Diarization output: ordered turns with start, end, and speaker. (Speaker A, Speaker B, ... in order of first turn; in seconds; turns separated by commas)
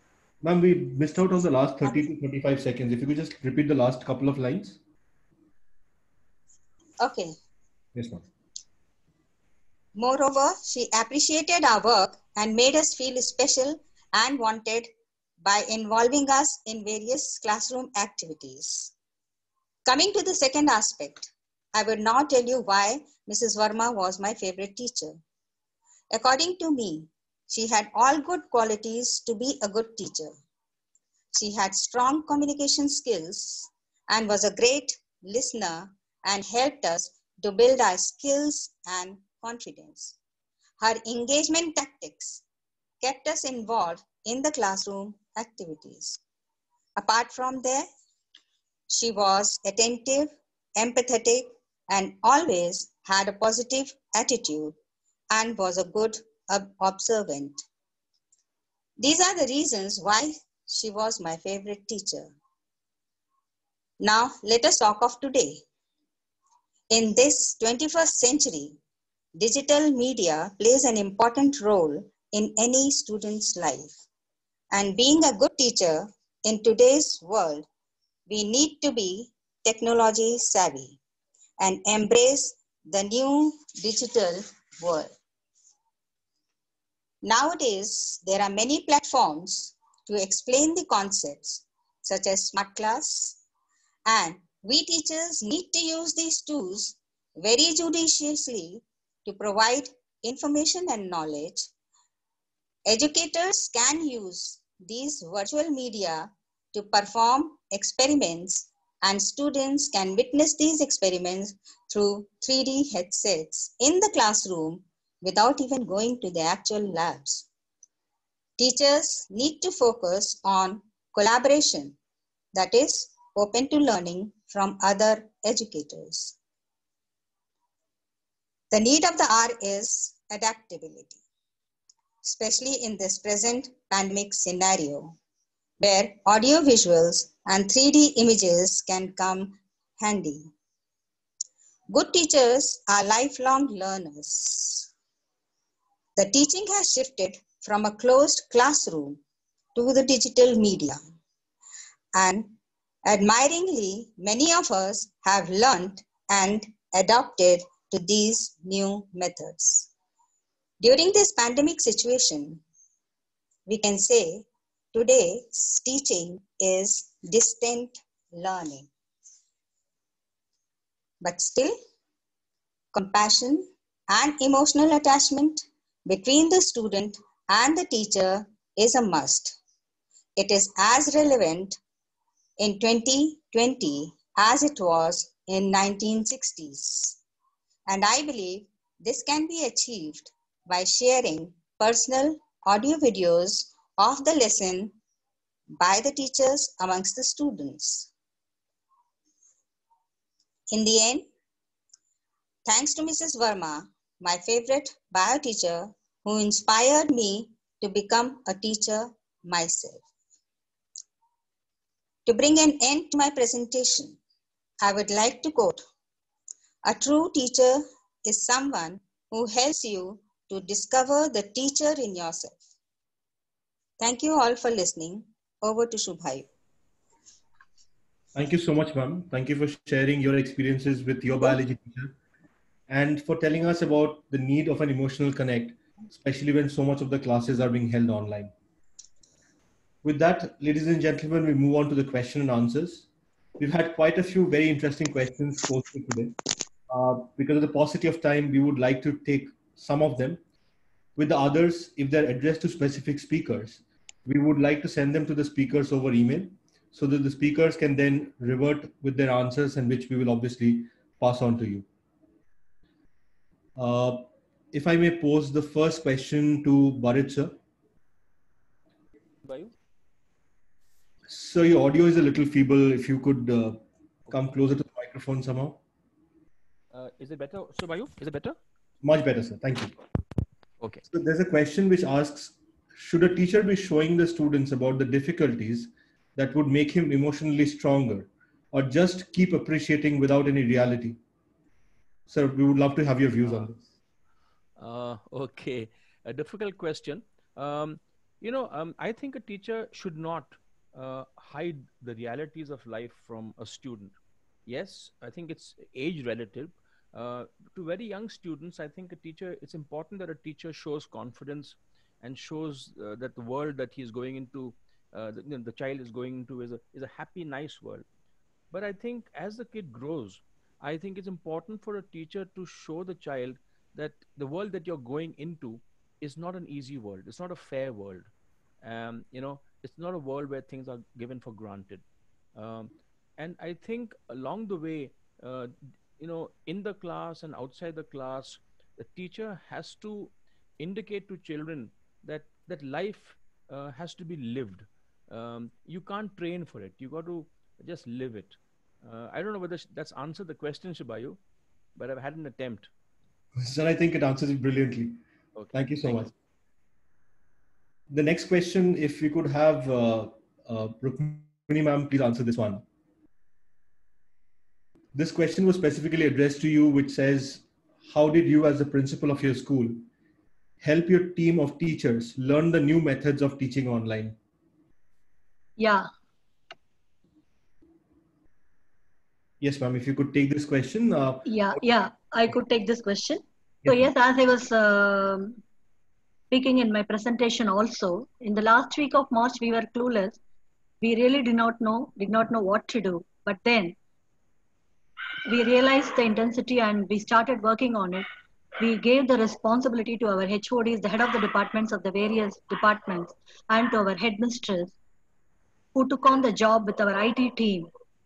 Speaker A: 0.4-4.8, Speaker B: 7.0-7.3, Speaker A: 7.9-8.2, Speaker B: 9.9-14.9, Speaker B: 15.4-18.9, Speaker B: 19.9-25.2, Speaker B: 26.1-30.3, Speaker B: 31.3-40.2, Speaker B: 40.8-42.4, Speaker B: 43.0-46.2, Speaker B: 47.0-47.9, Speaker B: 48.9-54.8, Speaker B: 55.3-57.6, Speaker B: 59.0-62.3, Speaker B: 64.0-65.6, Speaker B: 66.9-68.8, Speaker B: 69.4-73.9, Speaker B: 74.7-77.7, Speaker B: 78.3-81.0, Speaker B: 81.6-85.1, Speaker B: 87.2-93.4, Speaker B: 94.0-101.7, Speaker B: 102.8-117.5, Speaker B: 118.6-122.0, Speaker B: 122.5-126.3, Speaker B: 128.7-131.2, Speaker B: 132.2-135.2, Speaker B: 135.8-140.5, Speaker B: 141.9-144.9, Speaker B: 146.2-149.2, Speaker B: 149.7-151.0, Speaker B: 152.1-152.5, Speaker B: 153.1-159.9, Speaker B: 160.8-162.6, Speaker B: 163.7-168.9, Speaker B: 171.2-171.7, Speaker B: 172.9-179.6, Speaker B: 180.4-181.8, Speaker B: 182.6-187.2, Speaker B: 187.9-195.0, Speaker B: 195.8-198.1, Speaker B: 200.7-201.3, Speaker B: 202.7-210.0, Speaker B: 212.2-214.2, Speaker B: 214.8-215.8, Speaker B: 216.8-222.6, Speaker B: 224.0-226.5, Speaker A: 228.3-232.1, Speaker A: 232.9-238.5, Speaker A: 240.0-243.1, Speaker A: 243.6-246.3, Speaker A: 246.9-250.4, Speaker A: 251.2-261.9, Speaker A: 263.8-267.6, Speaker C: 269.4-269.7, Speaker A: 271.3-275.8, Speaker C: 276.9-278.6, Speaker A: 279.0-279.9, Speaker A: 281.1-291.2, Speaker A: 292.3-293.8, Speaker C: 293.4-293.7, Speaker C: 294.8-304.1, Speaker C: 304.7-318.0, Speaker C: 318.7-328.3, Speaker C: 328.8-332.0, Speaker C: 332.5-351.4, Speaker C: 351.9-352.9, Speaker A: 353.6-355.2, Speaker C: 355.6-356.3, Speaker A: 355.7-356.3, Speaker A: 358.1-362.8, Speaker A: 365.1-370.0, Speaker A: 370.8-374.3, Speaker D: 375.8-376.1, Speaker A: 379.6-381.8, Speaker D: 381.4-385.6, Speaker D: 386.5-390.4, Speaker D: 391.0-393.9, Speaker D: 395.5-398.2, Speaker D: 398.8-404.9, Speaker D: 405.9-407.9